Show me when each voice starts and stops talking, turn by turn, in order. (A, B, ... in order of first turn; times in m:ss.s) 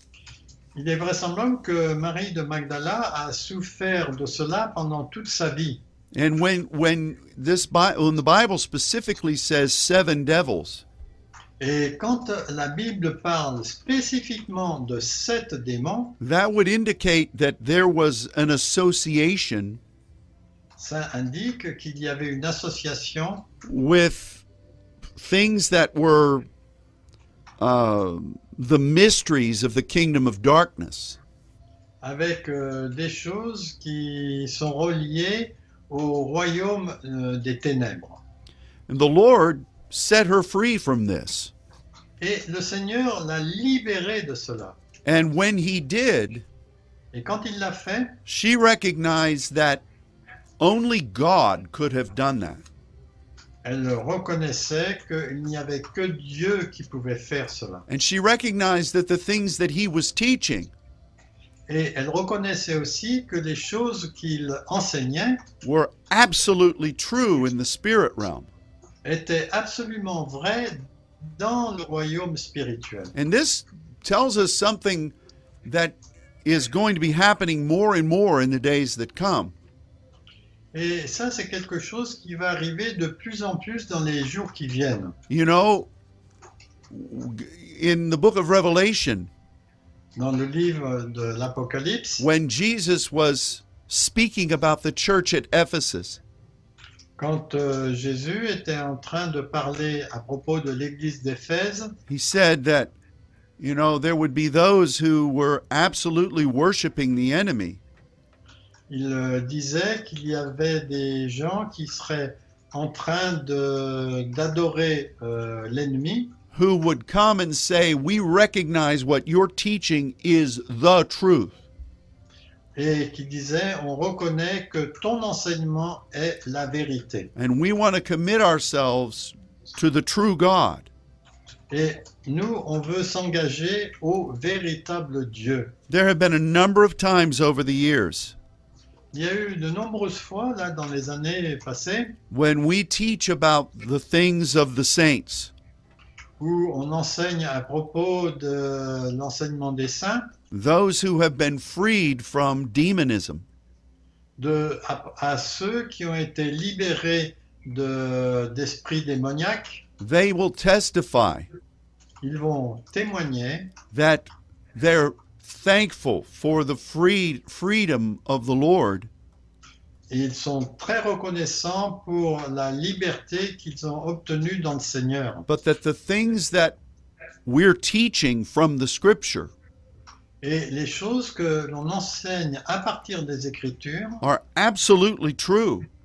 0:00.7-0:05.8 A
0:06.1-0:10.8 B
0:11.6-0:16.2 A
0:16.2-0:19.8 B
0:20.8-0:23.4 A
0:23.6-0:24.4 B
0:25.2-0:26.5 B
0:27.6-0:31.2 B
0:32.0-0:38.2 A
0:38.9-0:41.5 B
0:42.2-0:44.8 A
0:45.0-0:46.4 B
0:47.1-0:48.2 A
0:48.2-0:49.8 B
0:50.6-0:52.6 B
0:53.6-0:57.8 A
0:57.9-1:00.7 B
1:01.7-1:05.4 A
1:05.6-1:08.5 B
1:09.0-1:13.1 A
1:13.1-1:19.5 B
1:20.7-1:25.2 A
1:25.3-1:25.9 B
1:26.9-1:29.3 B
1:30.2-1:32.2 A
1:32.2-1:36.2 B
1:37.2-1:41.9 A
1:42.1-1:42.9 B
1:43.6-1:47.8 B
1:48.9-1:56.3 A
1:56.5-2:01.6 B
2:02.7-2:07.3 A
2:07.4-2:10.9 B
2:11.7-2:15.7 A
2:15.9-2:18.4 B
2:19.1-2:22.2 A
2:22.3-2:25.5 B
2:26.4-2:30.3 A
2:30.5-2:33.4 B
2:34.4-2:39.8 A
2:40.0-2:41.5 B
2:42.2-2:43.7 A
2:43.9-2:49.1 B
2:50.1-2:55.4 A
2:55.5-2:56.8 B
2:57.4-2:59.5 B
3:00.4-3:04.2 A
3:04.2-3:05.9 B